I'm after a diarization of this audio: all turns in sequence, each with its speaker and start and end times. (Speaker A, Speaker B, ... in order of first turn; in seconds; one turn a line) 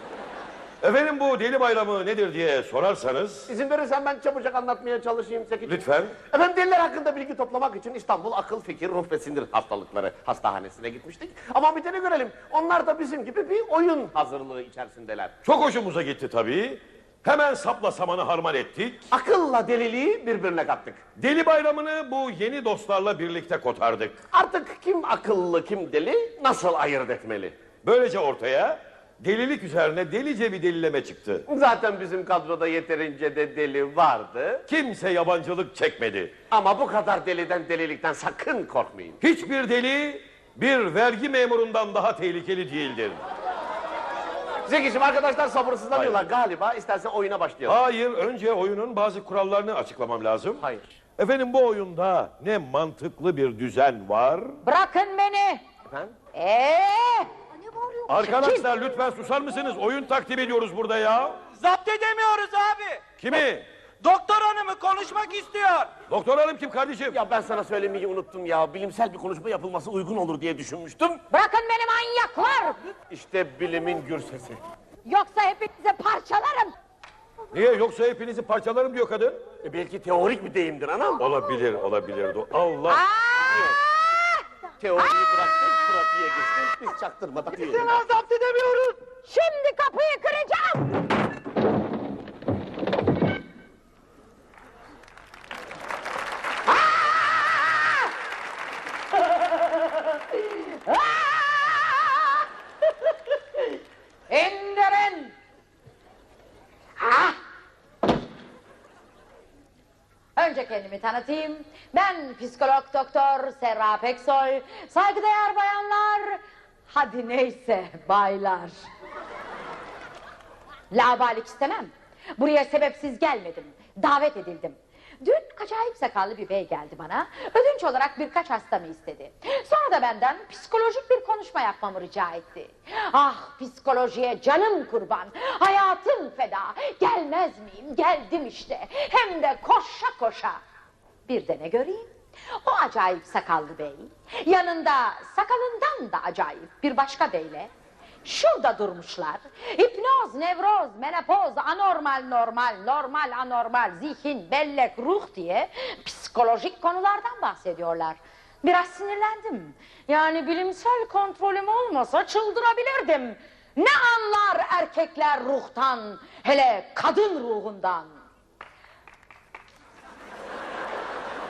Speaker A: 0.8-3.5
Speaker B: 3.5-15.3
Speaker A: 5.7-6.2
Speaker A: 15.4-19.1
Speaker B: 19.1-21.0
Speaker A: 21.2-24.2
Speaker B: 24.3-27.6
Speaker A: 27.8-31.4
Speaker B: 31.5-34.6
Speaker A: 34.7-36.3
Speaker B: 36.5-39.2
Speaker A: 39.2-43.2
Speaker B: 44.7-47.8
Speaker A: 45.9-46.2
Speaker A: 47.7-50.6
Speaker B: 50.6-51.0
Speaker A: 51.2-54.6
Speaker C: 54.6-55.6
Speaker C: 56.3-58.7
Speaker A: 58.1-61.4
Speaker D: 61.5-63.0
Speaker A: 63.2-63.7
Speaker D: 64.0-65.9
Speaker A: 66.1-67.2
Speaker B: 67.1-71.2
Speaker C: 71.3-72.8
Speaker B: 73.1-74.6
Speaker C: 75.0-76.8
Speaker A: 77.5-79.4
Speaker B: 79.6-81.2
Speaker A: 81.2-83.0
Speaker C: 82.9-84.3
Speaker B: 83.5-83.7
Speaker B: 84.8-88.0
Speaker C: 88.1-88.4
Speaker C: 89.3-90.9
Speaker C: 96.7-97.9
Speaker C: 99.3-102.3
Speaker C: 104.3-105.3
Speaker C: 107.0-107.4
Speaker C: 110.4-118.8
Speaker C: 120.9-140.6
Speaker C: 141.3-142.1
Speaker C: 142.6-147.7
Speaker C: 148.2-168.2